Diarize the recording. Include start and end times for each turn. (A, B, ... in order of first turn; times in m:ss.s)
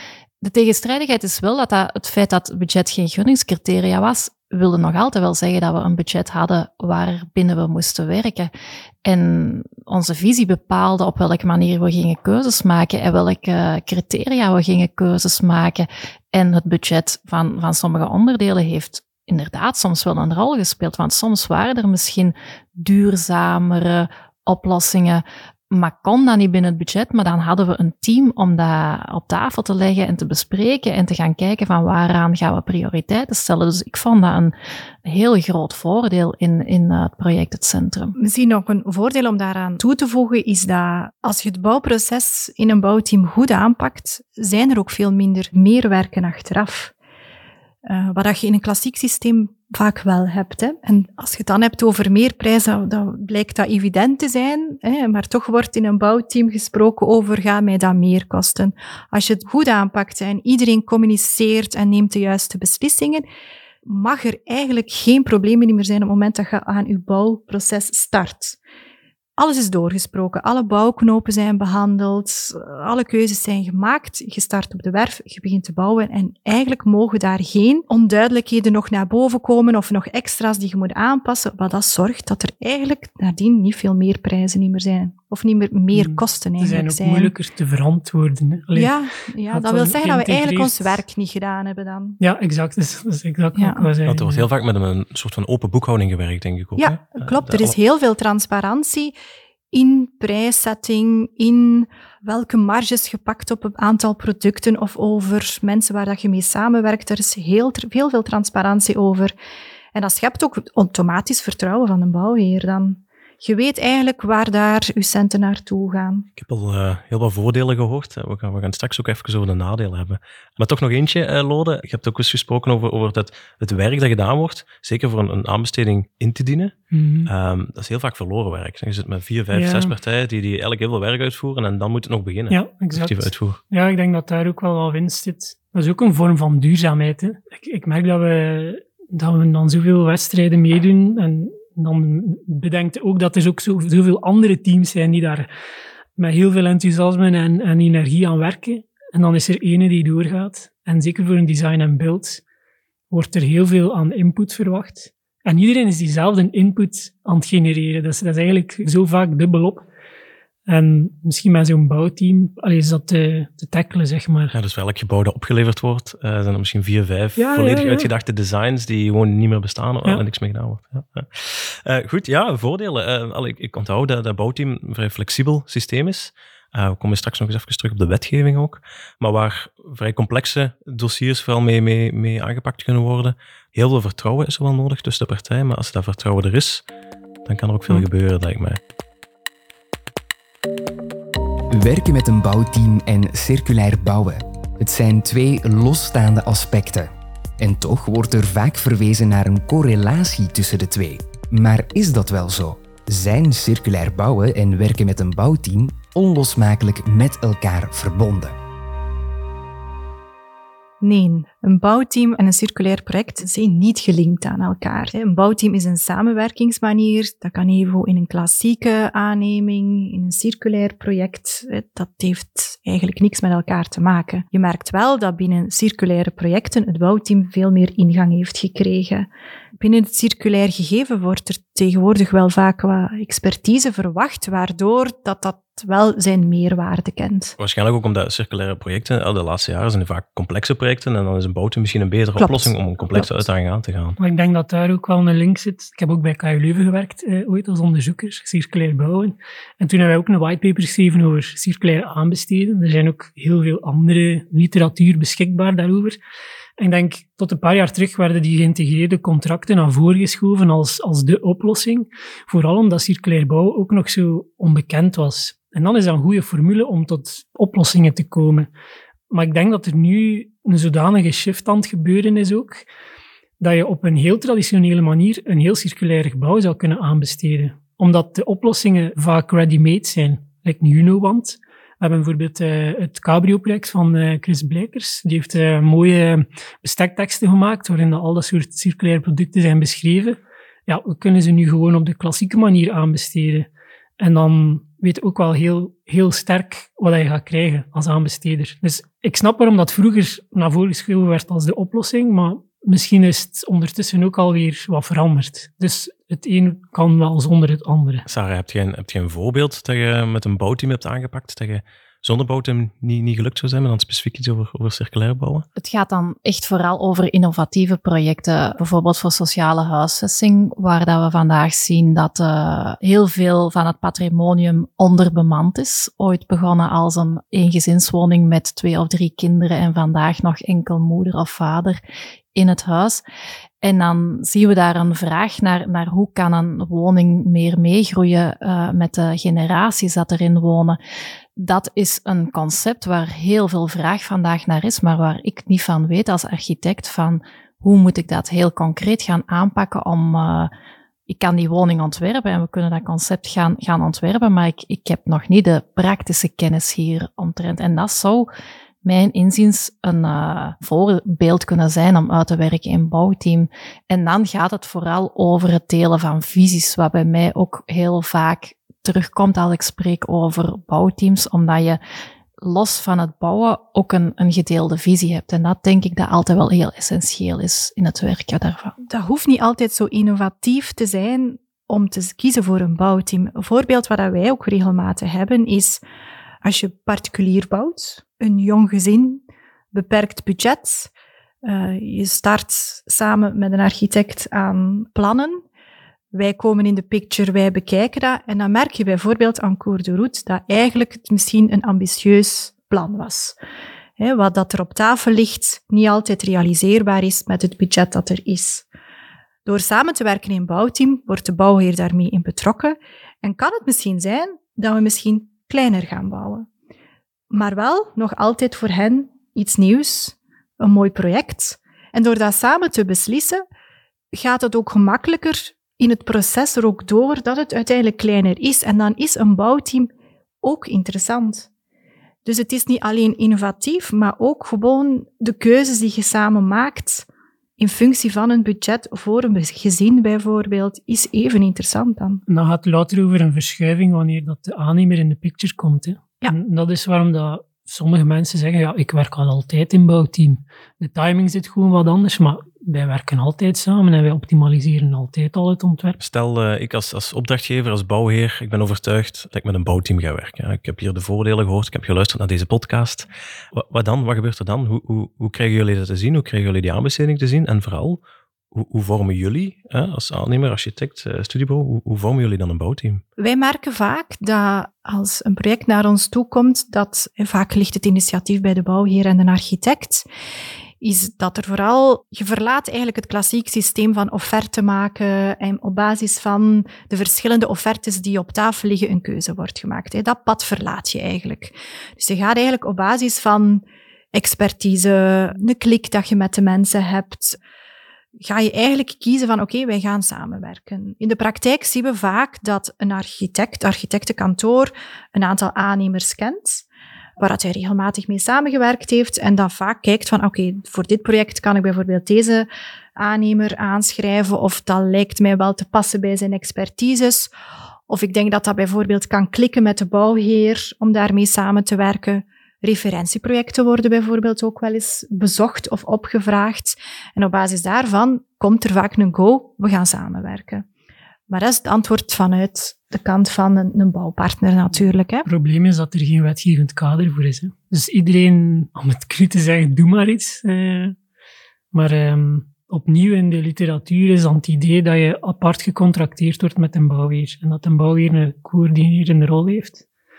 0:00.4-0:08.5 A
0:09.0-0:34.5 A
0:35.0-0:38.1 A
0:38.2-0:46.9 B
0:47.9-1:03.2 B
1:03.8-1:08.6 B
1:09.4-1:27.3 B
1:25.9-1:28.9 C
1:28.7-1:32.2 B
1:29.5-1:31.0 C
1:32.2-1:34.5 C
1:33.6-1:33.9 B
1:34.0-1:37.8 D
1:36.8-1:39.1 B
1:39.7-1:49.3 B
1:49.9-1:56.3 B
1:56.4-2:06.7 D
2:06.9-2:07.3 C
2:07.2-2:13.6 D
2:09.5-2:09.9 C
2:12.5-2:25.5 C
2:26.2-2:32.4 C
2:33.1-2:39.8 C
2:40.7-2:44.6 C
2:44.5-3:06.8 D
2:47.4-2:48.1 C
3:07.4-3:08.8 D
3:11.7-3:28.5 E
3:31.0-3:49.3 B
3:49.8-3:57.6 B
3:57.6-4:04.2 D
4:02.4-4:03.3 B
4:04.2-4:16.2 C
4:16.8-4:28.7 C
4:29.3-4:32.8 C
4:33.6-5:08.3 C
5:08.3-5:15.6 D
5:15.8-5:32.0 A
5:32.5-5:33.2 A
5:33.8-5:41.0 A
5:41.6-5:50.7 A
5:51.3-5:58.5 A
5:59.0-6:12.0 A
6:12.6-6:18.9 A
6:19.1-6:26.0 B
6:26.6-6:31.1 B
6:31.6-6:35.6 B
6:36.3-6:43.5 B
6:44.2-6:48.8 B
6:49.6-6:56.7 B
6:57.5-7:03.6 B
7:04.3-7:10.1 B
7:10.6-7:11.7 B
7:12.4-7:17.3 B
7:17.8-7:22.4 B
7:22.5-7:36.2 C
7:36.2-7:48.2 D
7:48.7-7:53.2 D
7:53.4-8:00.2 B
8:01.0-8:13.8 B
8:14.3-8:17.6 B
8:18.4-8:26.8 B
8:27.4-8:37.5 B
8:38.1-8:50.8 B
8:51.5-8:55.5 B
8:55.4-9:01.2 C
9:01.9-9:10.0 C